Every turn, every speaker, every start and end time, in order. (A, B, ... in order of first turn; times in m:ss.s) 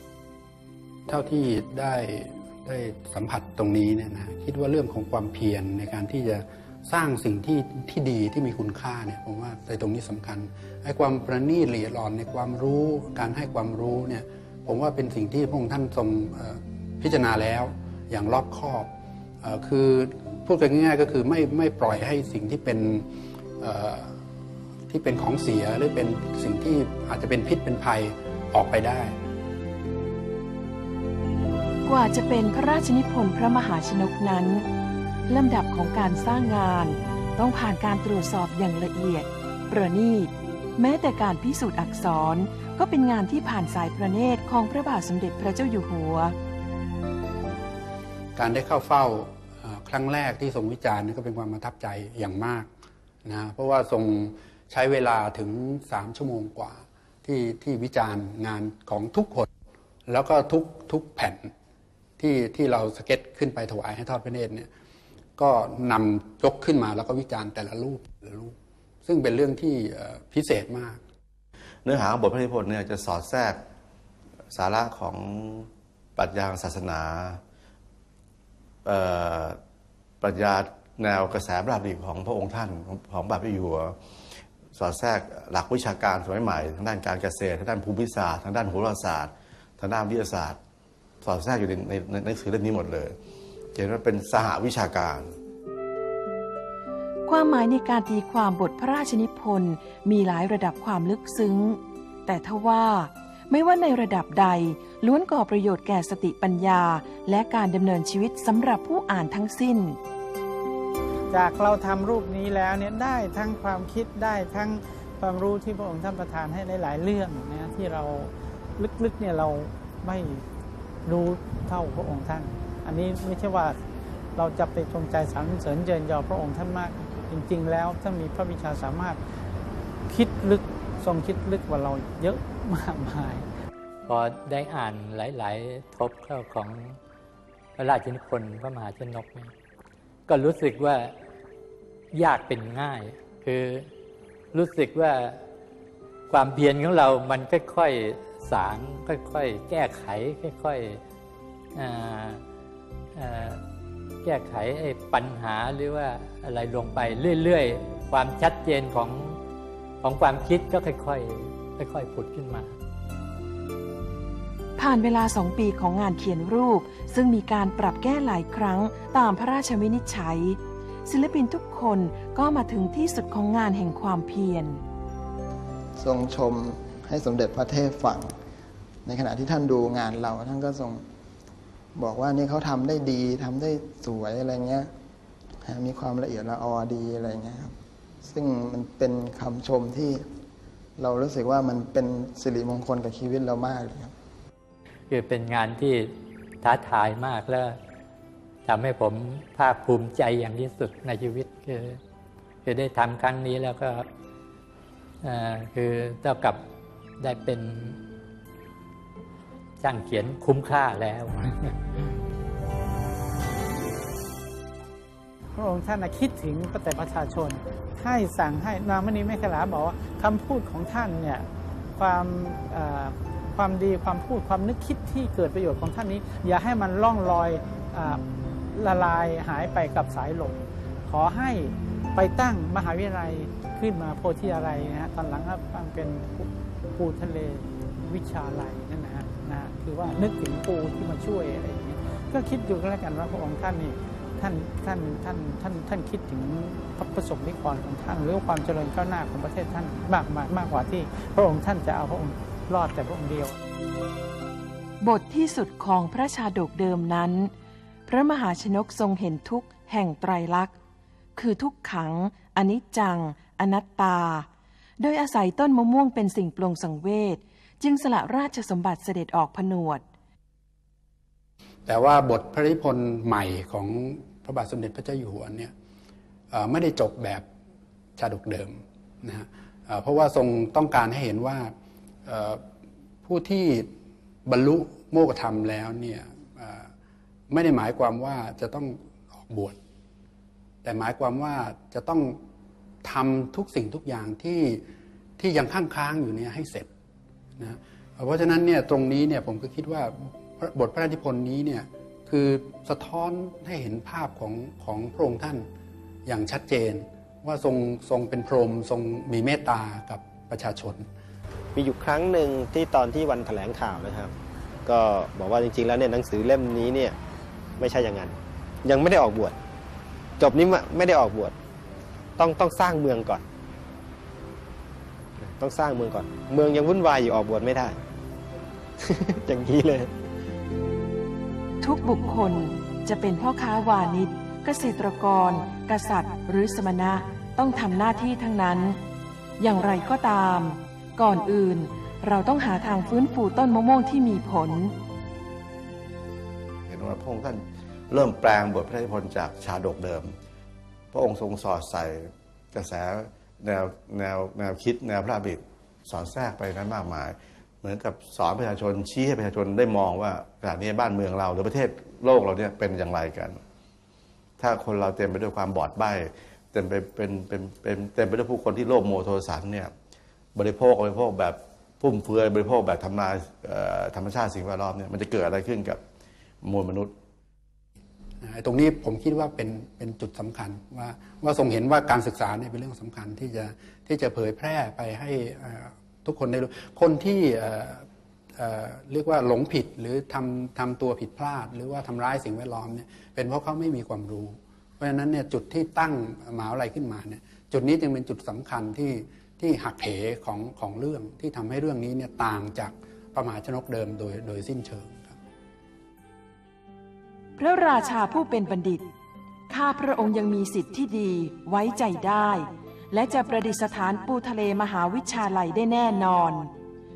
0:01.1-0:18.9 A
0:19.4-0:23.0 A
0:23.6-0:24.1 A
0:24.9-0:29.1 A
0:31.8-0:34.6 B
0:35.3-0:46.3 B
0:48.4-0:52.7 A
0:53.2-0:59.5 A
1:00.1-1:01.5 A
1:02.2-1:04.7 A
1:05.4-1:08.5 A
1:09.0-1:11.0 A
1:11.8-1:13.6 C
1:14.5-1:17.4 C
1:18.8-1:19.6 C
1:20.2-1:24.0 C
1:24.7-1:30.6 C
1:31.2-1:33.2 C
1:33.7-1:35.3 C
1:37.3-1:50.0 B
1:51.3-2:00.4 D
2:01.0-2:03.8 D
2:04.4-2:09.2 D
2:10.1-2:13.5 D
2:14.1-2:17.0 E
2:17.8-2:19.5 E
2:20.3-2:21.1 E
2:22.1-2:23.8 E
2:24.5-2:25.4 E
2:26.3-2:31.0 E
2:31.8-2:32.4 E
2:33.2-2:33.6 E
2:34.2-2:39.4 E
2:40.0-2:42.7 E
2:44.8-2:54.8 B
2:56.0-2:58.3 F
2:59.0-3:01.0 F
3:02.0-3:04.9 F
3:05.6-3:07.7 F
3:08.2-3:10.2 F
3:11.0-3:14.1 F
3:15.1-3:16.1 E
3:16.6-3:17.8 E
3:18.6-3:22.0 E
3:22.6-3:24.0 E
3:25.2-3:26.6 E
3:27.2-3:28.0 E
3:29.8-3:32.1 E
3:35.6-3:48.2 D
3:48.7-4:13.5 D
4:15.0-4:17.5 B
4:18.1-4:20.7 B
4:21.4-4:24.5 B
4:25.0-4:30.0 B
4:31.8-4:35.7 A
4:36.5-4:37.4 A
4:38.2-4:41.7 A
4:42.2-4:42.6 A
4:43.2-4:43.9 A
4:44.4-4:46.9 A
4:47.5-4:49.8 A
4:50.8-4:52.4 A
4:53.0-4:54.8 A
4:55.4-4:56.9 A
4:57.6-5:05.7 A
5:06.2-5:11.0 A
5:11.8-5:14.3 G
5:14.8-5:17.2 G
5:17.8-5:19.6 G
5:20.4-5:21.5 G
5:22.4-5:23.4 G
5:25.4-5:28.0 G
5:29.0-5:30.1 G
5:31.8-5:39.0 B
5:39.6-5:44.9 B
5:46.9-5:50.3 C
5:51.1-6:03.6 C
6:04.6-6:09.9 C
6:10.5-6:16.0 C
6:16.6-6:17.1 C
6:18.4-6:28.0 A
6:28.6-6:45.4 A
6:47.6-6:49.1 B
6:49.7-6:56.7 B